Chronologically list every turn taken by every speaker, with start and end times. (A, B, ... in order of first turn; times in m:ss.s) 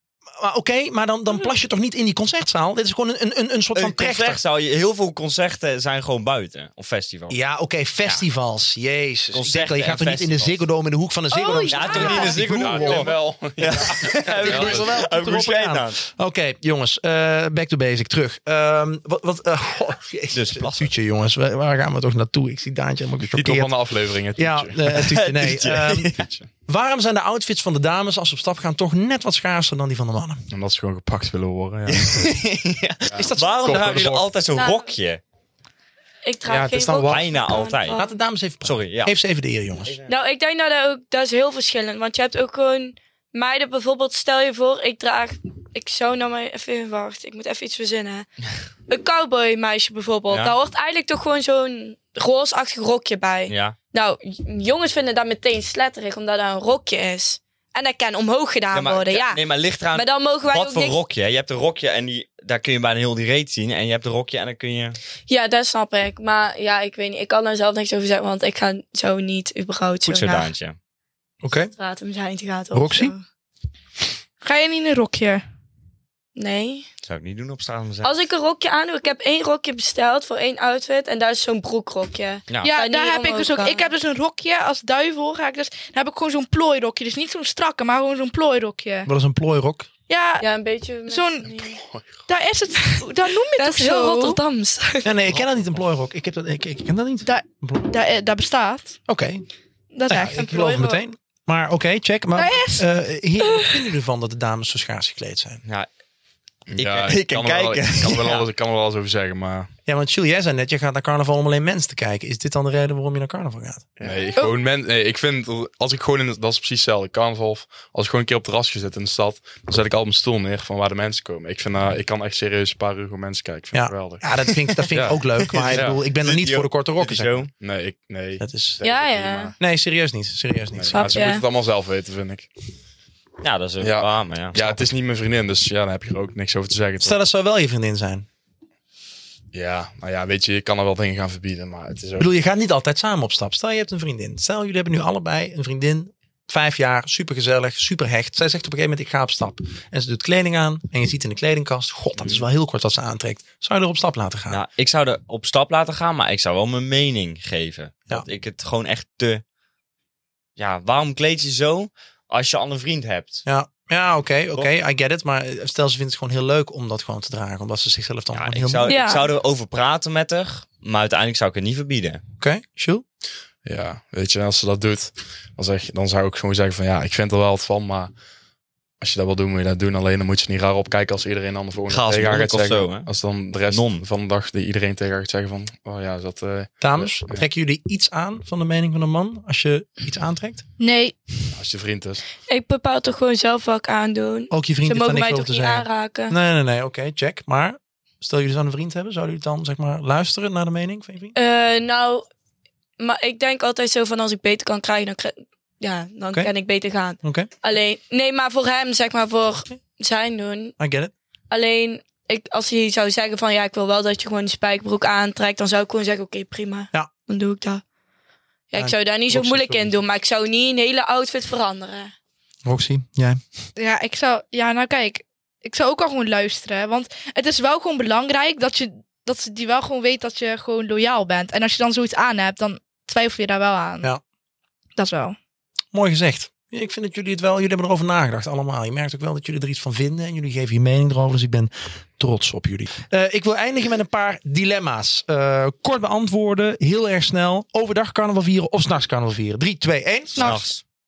0:00.3-0:04.4 A
0:03.7-0:07.4 B
0:07.3-0:13.1 A
0:09.3-0:10.6 B
0:11.3-0:12.4 C
0:11.6-0:16.0 B
0:11.9-0:14.9 D
0:13.9-0:23.7 A
0:20.3-0:20.9 B
0:23.2-0:25.1 D
0:24.4-0:26.1 A
0:24.9-0:26.2 B
0:26.2-0:26.5 D
0:26.7-0:30.4 A
0:30.5-0:32.3 D
0:31.9-0:35.2 B
0:33.0-0:34.3 D
0:33.2-0:34.2 A
0:34.5-0:34.9 E
0:36.2-0:38.1 E
0:36.5-0:37.2 A
0:36.5-0:37.1 D
0:37.1-0:38.0 B
0:37.9-0:40.0 A
0:38.6-0:39.1 B
0:39.8-0:40.1 B
0:40.1-0:48.3 E
0:48.9-1:01.0 E
0:50.3-0:50.5 B
0:53.5-0:53.8 B
0:58.7-1:05.0 B
1:05.3-1:10.5 E
1:10.0-1:10.8 B
1:11.4-1:11.7 A
1:11.8-1:13.2 E
1:12.7-1:13.1 A
1:14.4-1:15.4 C
1:16.4-1:16.9 E
1:17.0-1:18.1 B
1:18.0-1:23.9 E
1:22.6-1:29.1 C
1:29.0-1:29.9 A
1:30.1-1:30.5 C
1:30.4-1:31.8 E
1:31.1-1:31.5 C
1:31.6-1:32.1 D
1:32.3-1:34.4 C
1:32.8-1:35.3 E
1:35.0-1:37.8 A
1:37.2-1:39.0 C
1:39.1-1:39.4 A
1:39.9-1:40.5 C
1:40.1-1:45.6 A
1:40.3-1:41.0 E
1:42.3-1:42.9 C
1:46.7-1:49.7 D
1:46.8-1:48.5 B
1:49.8-1:53.9 A
1:54.0-2:04.2 D
2:03.7-2:07.5 A
2:04.5-2:07.5 B
2:04.9-2:06.0 D
2:07.6-2:09.5 D
2:08.4-2:08.8 A
2:08.8-2:09.5 E
2:09.6-2:11.3 A
2:10.7-2:12.5 D
2:10.9-2:11.4 E
2:13.4-2:14.7 B
2:13.8-2:17.2 D
2:17.0-2:18.2 A
2:19.5-2:22.3 D
2:22.2-2:34.6 A
2:34.5-2:39.4 B
2:40.6-2:43.4 B
2:43.4-2:48.9 A
2:48.3-2:52.2 B
2:48.8-2:49.3 E
2:52.4-2:53.0 A
2:53.6-2:58.1 D
2:59.0-3:07.4 D
3:01.9-3:03.1 B
3:03.7-3:04.0 B
3:06.8-3:10.6 A
3:10.8-3:11.2 C
3:11.5-3:12.2 D
3:12.4-3:16.4 E
3:14.5-3:21.3 A
3:21.3-3:22.3 E
3:23.0-3:30.8 E
3:27.2-3:27.5 A
3:30.8-3:31.1 A
3:31.5-3:37.8 E
3:38.7-3:42.1 E
3:38.8-3:40.0 A
3:42.6-3:43.4 A
3:43.8-3:54.1 C
3:55.0-3:55.4 C
3:55.9-4:10.6 A
4:10.4-4:10.7 C
4:10.4-4:10.8 B